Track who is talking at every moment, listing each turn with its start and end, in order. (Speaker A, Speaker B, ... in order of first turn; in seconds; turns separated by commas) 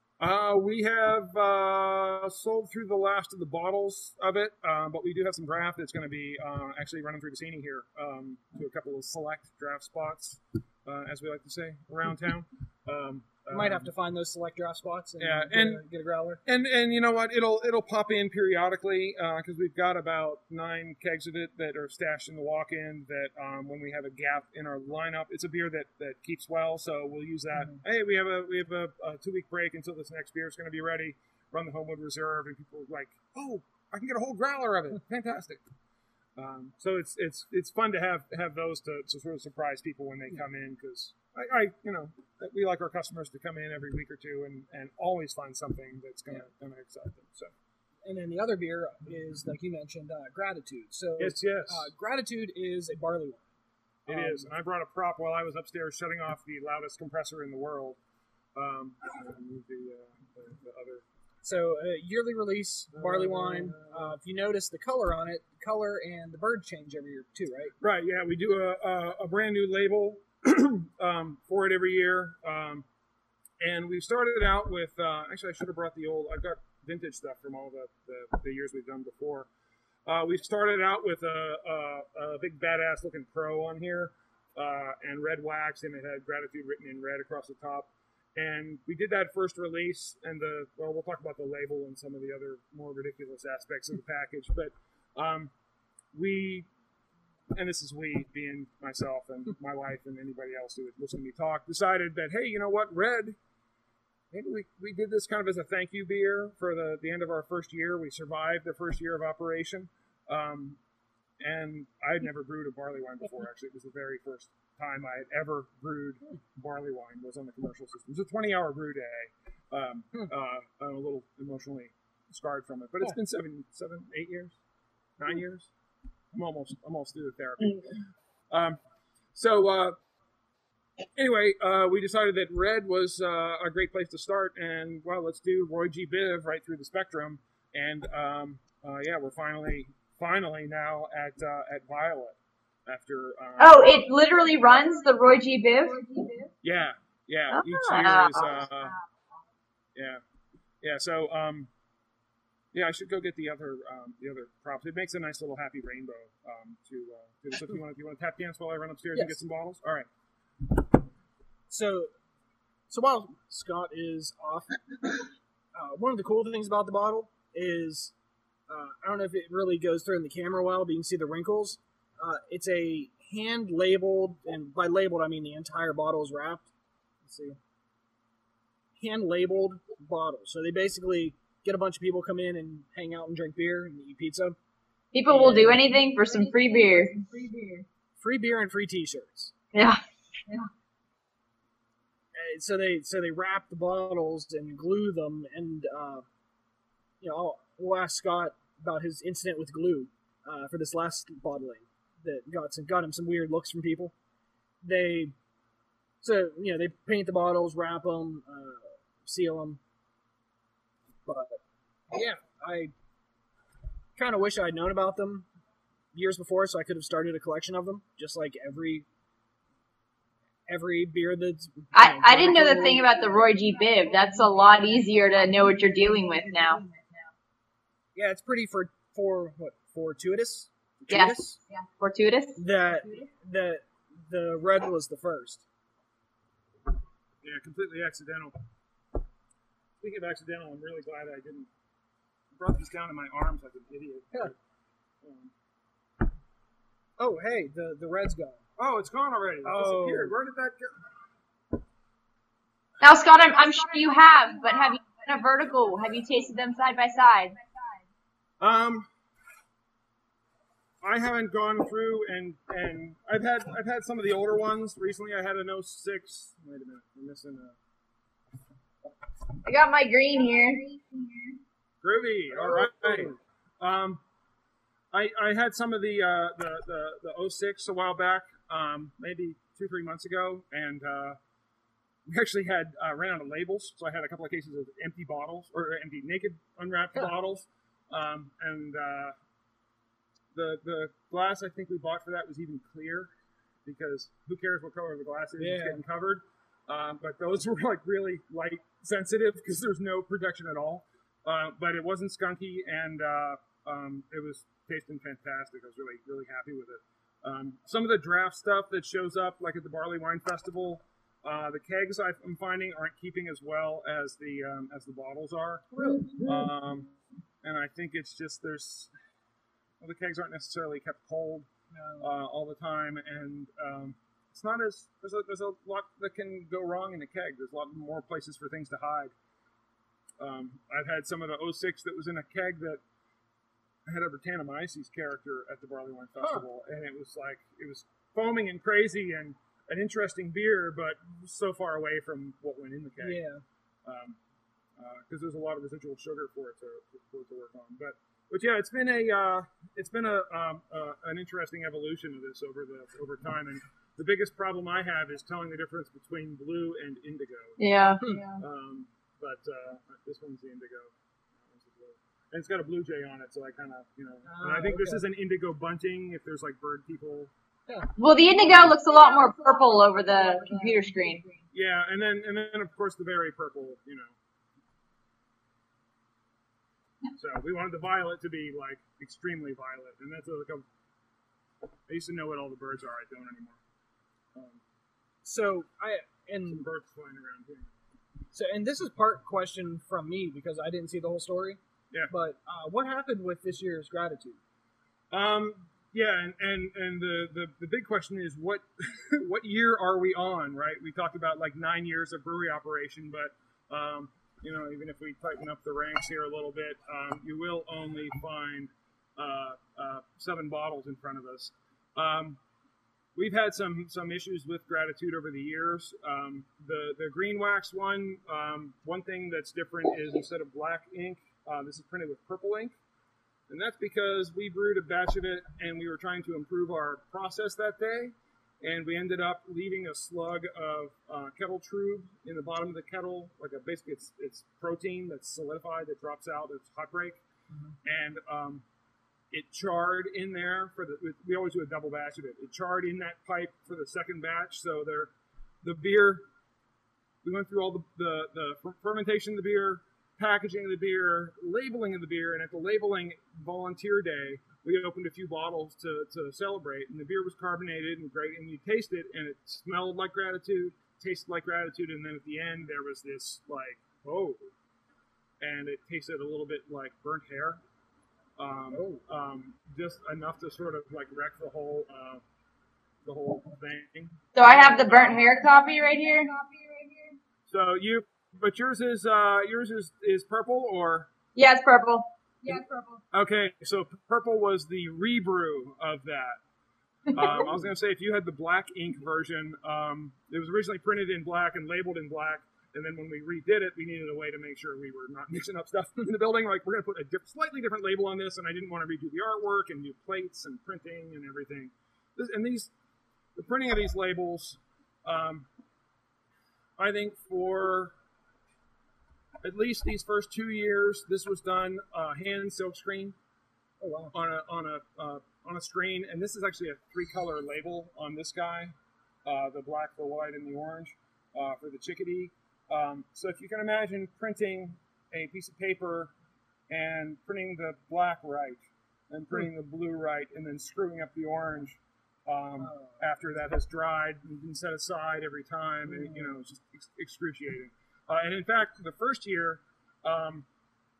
Speaker A: 0.2-13.9, Speaker B: 13.5-16.4, Speaker A: 15.2-15.8, Speaker A: 16.4-35.6, Speaker A: 36.4-47.5, Speaker B: 48.0-53.5, Speaker A: 51.2-51.9, Speaker B: 54.0-54.5, Speaker A: 54.1-58.0, Speaker A: 58.5-61.0, Speaker B: 61.4-67.7, Speaker A: 62.9-64.2, Speaker A: 67.8-72.8, Speaker A: 73.6-79.5, Speaker A: 80.0-95.5, Speaker A: 96.1-96.7, Speaker A: 97.5-103.4, Speaker A: 104.3-110.8, Speaker A: 111.4-124.6, Speaker A: 125.2-125.7, Speaker A: 126.3-127.9, Speaker A: 128.5-128.8, Speaker A: 129.3-129.9, Speaker A: 131.2-144.0, Speaker C: 143.6-146.0, Speaker D: 144.7-145.1, Speaker D: 145.8-146.5, Speaker A: 146.6-148.9, Speaker C: 147.5-148.5, Speaker D: 148.6-149.0, Speaker A: 149.9-150.2, Speaker A: 150.8-151.7, Speaker A: 152.7-160.1, Speaker B: 159.1-159.4, Speaker B: 161.7-162.1, Speaker B: 162.9-164.8, Speaker B: 165.7-168.1, Speaker B: 168.7-176.7, Speaker A: 177.2-177.6, Speaker B: 178.9-184.6, Speaker C: 185.1-187.1, Speaker B: 185.2-185.8, Speaker D: 185.4-187.9, Speaker B: 188.2-189.5, Speaker C: 189.7-190.0, Speaker B: 192.3-196.2, Speaker B: 197.2-204.1, Speaker B: 204.8-205.3, Speaker B: 206.2-209.8, Speaker B: 211.2-211.6, Speaker B: 212.1-212.9, Speaker B: 214.2-215.5, Speaker B: 216.1-219.1, Speaker B: 220.7-223.1, Speaker C: 221.9-226.8, Speaker D: 222.9-227.3, Speaker B: 228.1-231.6, Speaker C: 231.1-232.6, Speaker B: 232.6-235.7, Speaker D: 232.9-233.3, Speaker A: 237.4-238.6, Speaker A: 240.0-241.7, Speaker A: 242.5-244.6, Speaker A: 245.2-245.5, Speaker B: 247.2-248.6, Speaker A: 248.8-251.0, Speaker B: 249.6-250.3, Speaker C: 253.0-257.5, Speaker D: 253.4-258.1, Speaker A: 258.6-259.1, Speaker A: 261.0-267.8, Speaker C: 269.6-270.8, Speaker D: 270.3-271.6, Speaker A: 272.0-274.2, Speaker B: 272.5-273.3, Speaker A: 275.1-281.4, Speaker A: 282.2-289.4, Speaker A: 290.5-293.3, Speaker A: 293.8-315.9, Speaker B: 295.6-296.0, Speaker B: 315.9-316.4, Speaker D: 316.1-316.4, Speaker A: 316.4-317.1, Speaker A: 317.6-319.1, Speaker A: 320.0-321.7, Speaker B: 321.9-322.3, Speaker A: 322.2-329.3, Speaker A: 330.4-333.0, Speaker A: 334.1-343.4, Speaker B: 343.2-343.6, Speaker A: 344.0-344.4, Speaker A: 345.0-357.8, Speaker C: 357.8-358.2, Speaker D: 358.2-358.6, Speaker A: 358.6-367.5, Speaker B: 364.4-365.2, Speaker C: 368.2-371.4, Speaker D: 368.4-371.7, Speaker A: 368.6-368.9, Speaker A: 371.7-374.4, Speaker A: 377.3-380.9, Speaker A: 382.1-383.8, Speaker A: 384.5-384.8, Speaker B: 385.4-386.9, Speaker A: 386.6-387.9, Speaker B: 388.5-394.6, Speaker A: 395.3-412.6, Speaker A: 413.3-422.9, Speaker A: 423.7-437.4, Speaker A: 438.0-438.8, Speaker A: 439.5-445.3, Speaker A: 445.8-446.4, Speaker A: 447.4-464.7, Speaker A: 465.6-467.8, Speaker A: 468.6-472.4, Speaker B: 468.9-469.2, Speaker A: 473.2-475.4, Speaker C: 474.5-476.5, Speaker D: 475.3-477.4, Speaker A: 477.7-481.3, Speaker C: 481.6-482.3, Speaker D: 482.6-483.2, Speaker A: 483.3-486.6, Speaker A: 487.3-502.9, Speaker A: 503.5-505.7, Speaker A: 507.0-508.1, Speaker A: 509.6-513.4, Speaker B: 514.0-514.3, Speaker A: 514.3-526.3, Speaker A: 526.9-540.7, Speaker B: 532.8-533.2, Speaker B: 536.1-536.5